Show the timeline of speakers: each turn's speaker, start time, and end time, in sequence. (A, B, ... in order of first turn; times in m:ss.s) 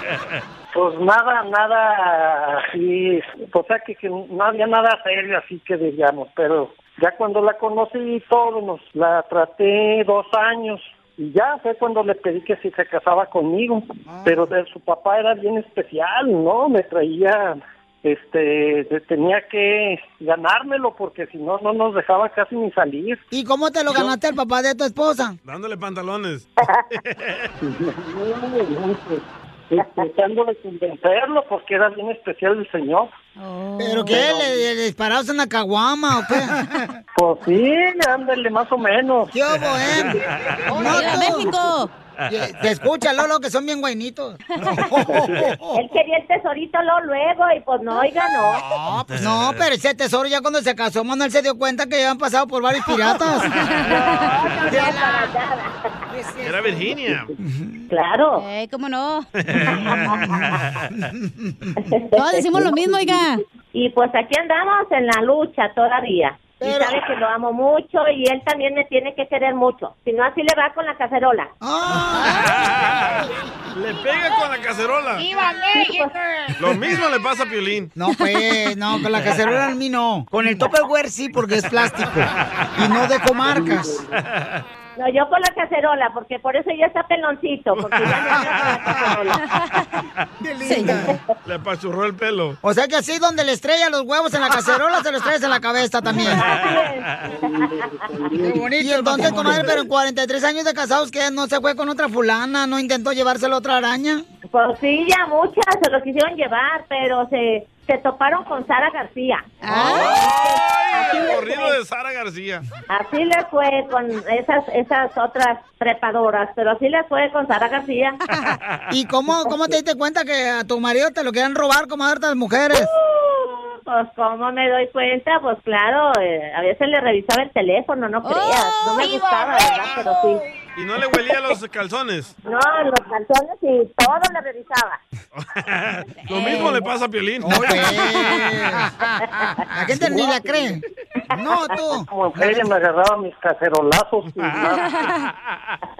0:00.7-0:23.2 A
0:14.1-0:14.4 B
0:23.3-0:25.4 B
0:25.4-0:27.5 C
0:27.6-0:33.1 A
0:33.4-0:34.3 D
0:33.8-0:36.9 B
0:34.1-0:34.6 A
0:37.2-0:39.3 A
0:39.3-0:41.5 B
0:39.6-0:40.6 C
0:39.9-0:40.3 A
0:40.8-0:41.9 D
0:42.2-0:42.6 C
0:42.3-0:45.8 B
0:45.7-0:48.7 E
0:48.7-0:53.5 B
0:49.1-0:49.6 C
0:53.5-0:54.3 D
0:53.9-0:55.7 E
0:54.6-0:55.3 B
0:56.1-0:56.8 B
0:56.4-0:57.3 C
0:57.4-0:57.8 B
0:57.9-0:58.4 E
0:58.4-0:59.2 D
0:59.4-1:00.9 C
0:59.7-1:00.1 E
0:59.9-1:01.7 B
1:01.8-1:03.2 E
1:02.2-1:03.4 D
1:03.7-1:11.5 E
1:06.6-1:06.9 B
1:11.6-1:13.3 B
1:12.3-1:15.3 C
1:15.2-1:16.7 B
1:15.7-1:16.2 E
1:16.6-1:17.9 C
1:18.0-1:24.0 B
1:22.4-1:22.7 C
1:23.6-1:23.8 A
1:24.1-1:24.6 C
1:25.0-1:29.4 E
1:27.8-1:29.3 C
1:28.4-1:29.2 B
1:30.4-1:31.2 B
1:30.6-1:31.0 D
1:31.4-1:32.6 C
1:32.6-1:36.4 B
1:36.2-1:38.3 E
1:36.3-1:37.3 C
1:36.6-1:39.8 A
1:38.4-1:44.2 B
1:44.5-1:51.7 E
1:49.6-1:50.1 D
1:49.7-1:52.6 C
1:52.9-1:58.2 E
1:58.5-1:58.8 C
1:58.9-2:02.9 B
2:03.0-2:10.4 E
2:08.2-2:09.7 D
2:10.8-2:12.3 C
2:12.4-2:15.0 E
2:15.3-2:18.0 C
2:16.2-2:16.8 D
2:17.4-2:19.0 B
2:18.1-2:18.5 D
2:19.6-2:22.7 B
2:20.0-2:20.7 A
2:21.8-2:24.7 A
2:24.4-2:25.8 C